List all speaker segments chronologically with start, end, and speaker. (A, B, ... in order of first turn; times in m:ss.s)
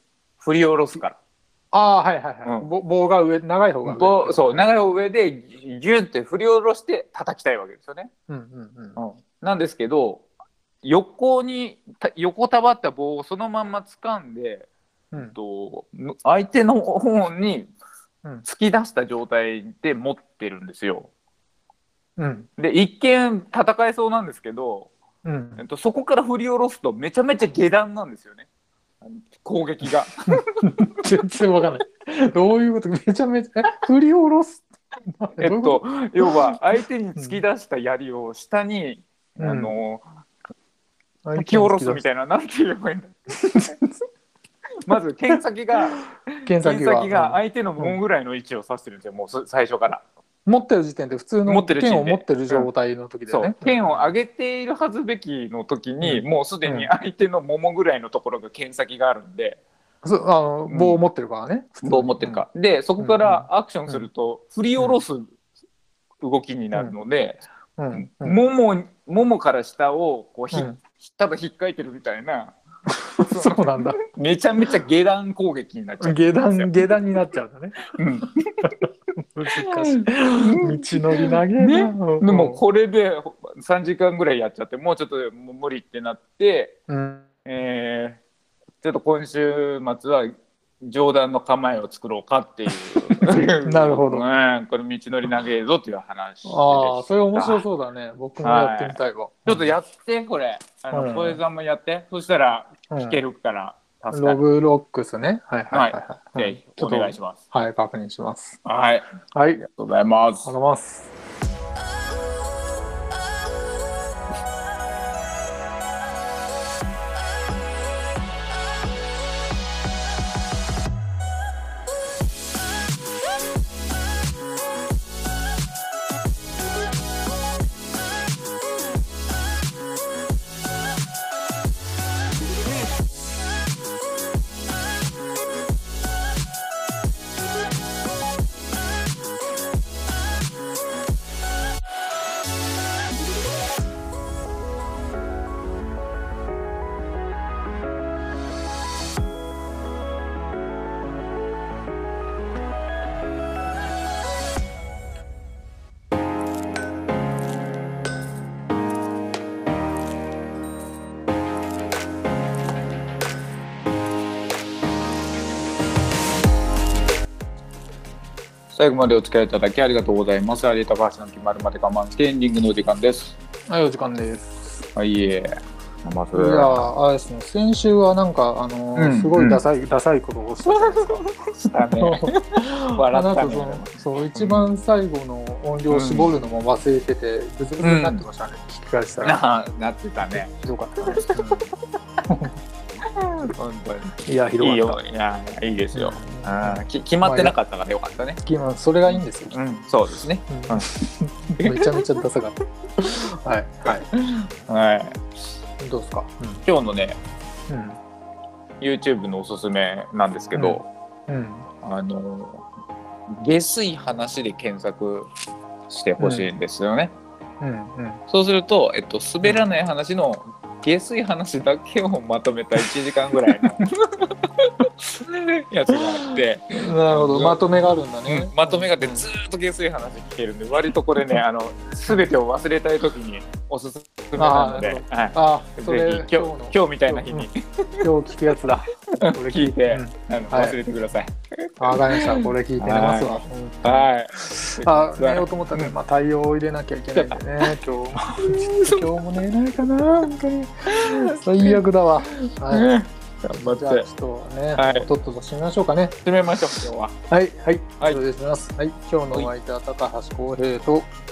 0:00.4-0:01.2 A
0:01.7-0:04.6 B
0:03.8-0:08.1 A
0:08.3-0:09.0 B
0:09.0-0:10.3 A
0:10.8-0:17.7 A
0:18.4-0:21.1 A
0:22.2-0:22.5 B
0:22.6-0:24.9 A
0:25.2-0:25.6 B
0:25.6-0:28.5 A
0:29.0-0:30.4 A
0:30.6-0:37.4 B
0:35.4-0:40.0 A
0:39.4-0:39.8 B
0:41.2-0:42.0 B
0:41.4-0:43.8 A
0:44.8-0:50.0 A
0:44.9-0:45.4 B
0:46.4-0:48.0 B
0:50.5-0:54.1 B
0:51.5-0:52.7 A
0:53.3-0:59.6 A
0:56.0-0:56.9 B
1:00.0-1:02.4 B
1:00.7-1:01.0 A
1:01.8-1:05.4 A
1:03.0-1:04.1 B
1:06.2-1:12.6 A
1:07.8-1:08.4 B
1:10.5-1:10.8 B
1:13.2-1:14.0 B
1:13.3-1:16.9 A
1:16.0-1:17.9 B
1:18.0-1:18.3 A
1:18.6-1:22.6 B
1:19.6-1:26.8 A
1:26.9-1:27.3 B
1:27.4-1:28.2 A
1:28.8-1:30.3 A
1:30.8-1:37.7 A
1:33.6-1:34.3 B
1:36.4-1:39.7 B
1:38.4-1:44.4 A
1:40.9-1:41.4 B
1:42.9-1:43.2 B
1:44.1-1:48.6 B
1:45.7-1:47.4 A
1:48.6-1:49.1 A
1:49.3-1:49.7 B
1:49.6-1:50.5 A
1:50.4-1:51.1 B
2:48.7-2:53.4 A
2:53.7-2:54.9 B
2:55.0-2:56.9 A
2:56.4-3:01.2 B
2:59.0-2:59.6 A
3:00.6-3:02.3 A
3:02.0-3:09.4 B
3:02.9-3:04.7 A
3:05.9-3:06.3 A
3:07.8-3:08.2 A
3:09.2-3:10.5 A
3:10.2-3:11.7 B
3:11.0-3:11.3 A
3:12.3-3:12.5 B
3:13.2-3:18.4 A
3:14.3-3:15.0 B
3:15.9-3:17.5 B
3:18.4-3:19.6 B
3:19.1-3:20.9 A
3:20.5-3:24.1 B
3:21.6-3:22.1 A
3:24.1-3:25.2 A
3:25.8-3:26.6 B
3:26.6-3:27.2 A
3:27.7-3:28.0 B
3:28.8-3:30.9 A
3:30.6-3:31.7 B
3:31.8-3:32.7 A
3:33.4-3:35.3 A
3:35.9-3:37.2 A
3:36.2-3:36.5 B
3:37.6-3:38.2 B
3:38.3-3:47.6 A
3:46.8-3:49.3 B
3:48.3-3:58.1 A
3:54.4-3:57.5 B
3:58.0-4:00.8 B
3:59.2-4:05.9 A
4:01.8-4:12.9 B
4:07.1-4:07.7 A
4:08.3-4:09.1 A
4:10.9-4:11.8 A
4:12.7-4:14.1 A
4:13.6-4:16.2 B
4:14.8-4:15.1 A
4:16.2-4:17.2 A
4:17.3-4:21.1 B